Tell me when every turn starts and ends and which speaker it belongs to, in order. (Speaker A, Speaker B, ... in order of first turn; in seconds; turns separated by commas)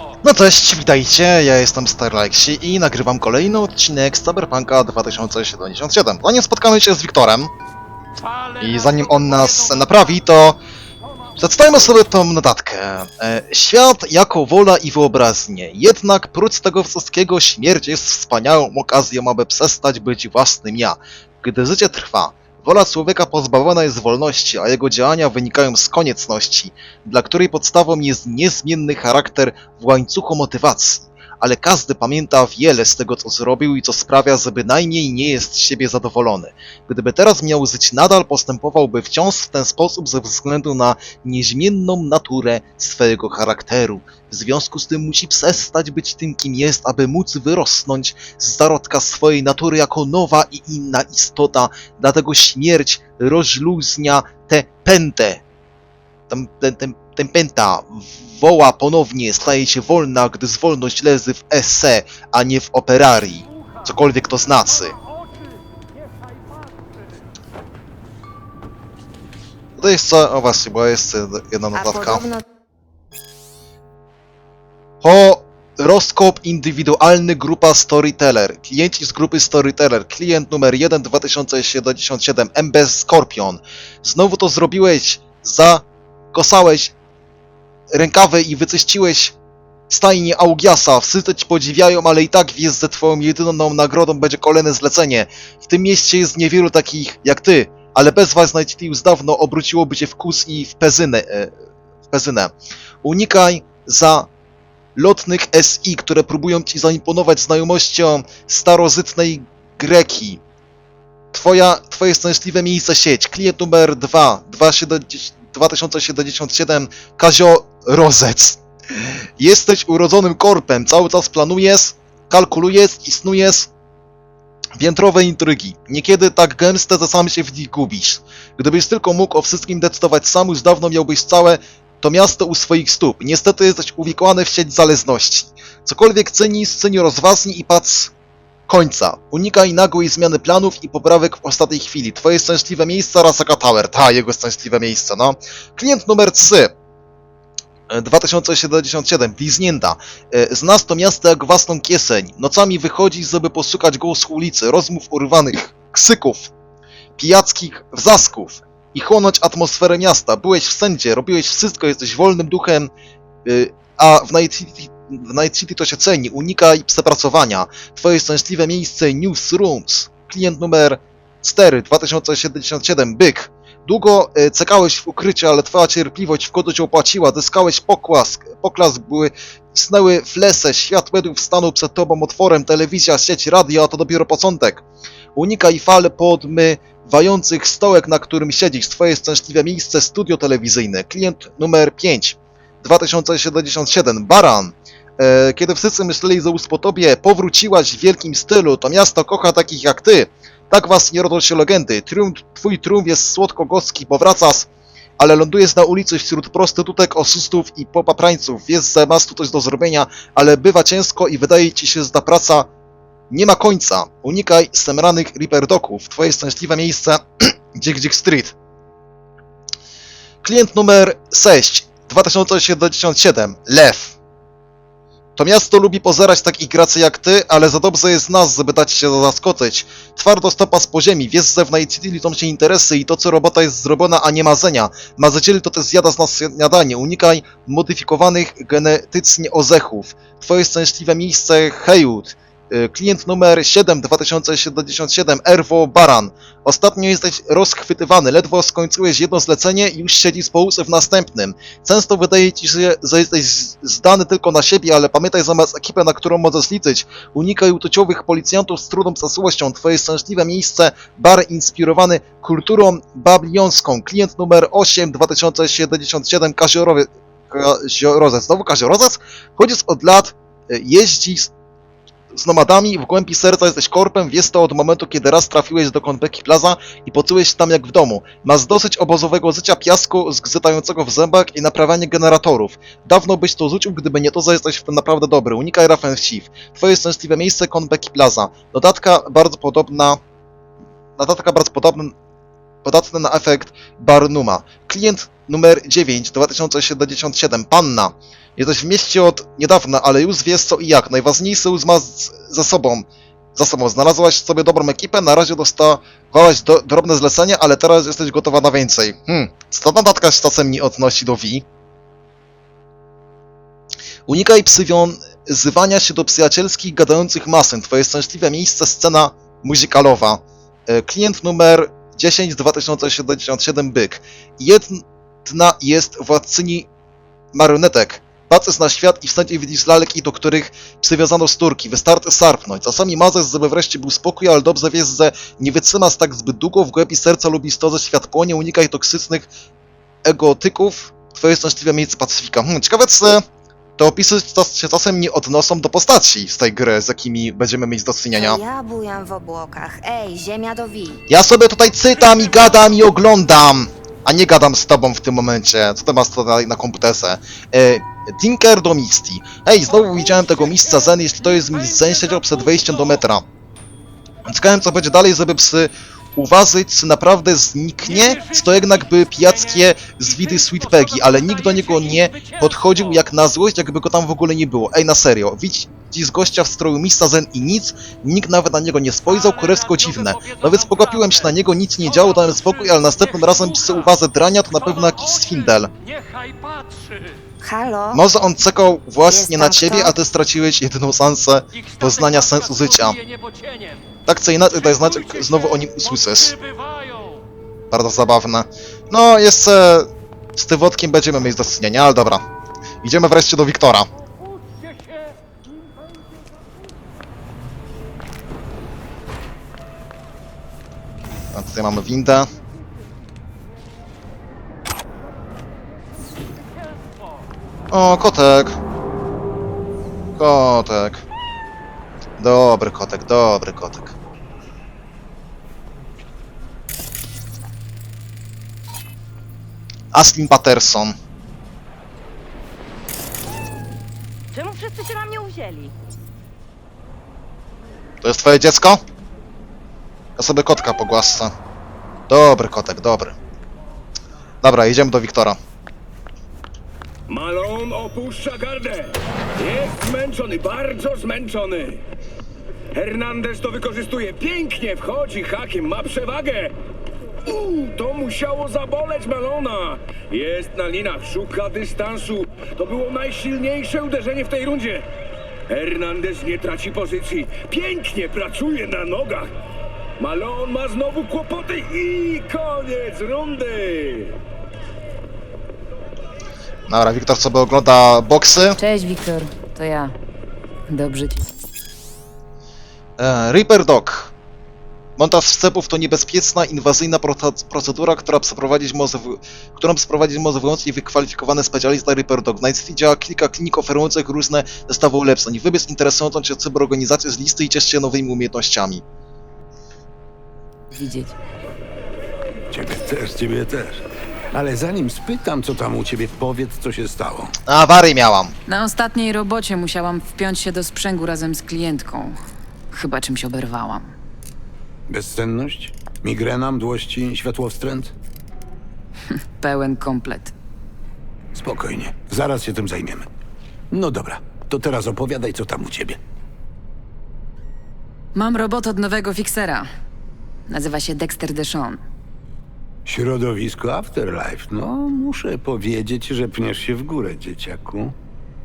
Speaker A: 0.2-7.5, Speaker B: 8.2-9.8, Speaker A: 8.6-10.6, Speaker A: 11.4-55.4, Speaker A: 56.3-65.0, Speaker A: 69.8-72.2, Speaker C: 71.7-72.4, Speaker A: 75.0-86.9, Speaker A: 87.9-89.3, Speaker A: 89.9-101.5, Speaker A: 102.1-104.3, Speaker A: 105.0-110.4, Speaker A: 111.3-123.7, Speaker A: 124.8-138.1, Speaker A: 138.7-146.7, Speaker A: 147.9-156.5, Speaker A: 157.2-162.9, Speaker A: 163.4-184.8, Speaker A: 185.3-212.7, Speaker A: 213.3-218.6, Speaker A: 220.4-224.2, Speaker A: 225.4-271.5, Speaker A: 272.3-290.2, Speaker A: 291.2-292.1, Speaker A: 292.8-311.6, Speaker A: 314.3-326.9, Speaker A: 327.5-339.5, Speaker A: 340.2-343.4, Speaker A: 344.0-348.6, Speaker C: 348.3-351.2, Speaker A: 351.3-363.4, Speaker A: 364.4-385.9, Speaker B: 368.3-368.9, Speaker B: 372.0-372.6, Speaker B: 379.4-381.4, Speaker B: 382.1-384.1, Speaker B: 385.0-387.4, Speaker C: 387.6-388.2, Speaker A: 388.1-393.2, Speaker C: 389.3-390.1, Speaker B: 391.9-394.0, Speaker A: 394.3-396.6, Speaker B: 395.1-397.4, Speaker A: 397.9-402.4, Speaker A: 403.0-404.1, Speaker A: 411.5-412.5, Speaker A: 417.9-418.8, Speaker A: 420.4-421.2, Speaker A: 422.4-424.1, Speaker A: 430.1-431.1, Speaker A: 438.2-439.0, Speaker A: 440.4-441.5, Speaker A: 442.3-443.4, Speaker A: 444.6-445.6, Speaker D: 447.3-452.0, Speaker D: 452.9-456.8, Speaker D: 457.4-465.1, Speaker D: 465.7-469.5, Speaker D: 470.2-474.4, Speaker A: 476.9-478.8, Speaker E: 478.8-480.1, Speaker E: 480.9-481.4, Speaker A: 483.2-484.3, Speaker A: 485.2-499.0, Speaker E: 500.9-501.3, Speaker F: 502.7-507.5, Speaker A: 507.7-508.5, Speaker E: 508.7-512.4, Speaker E: 512.9-514.1, Speaker F: 515.1-518.1, Speaker E: 519.3-520.5, Speaker F: 521.5-523.3, Speaker F: 523.9-526.2, Speaker E: 528.4-529.9, Speaker E: 530.7-532.0, Speaker F: 533.0-538.1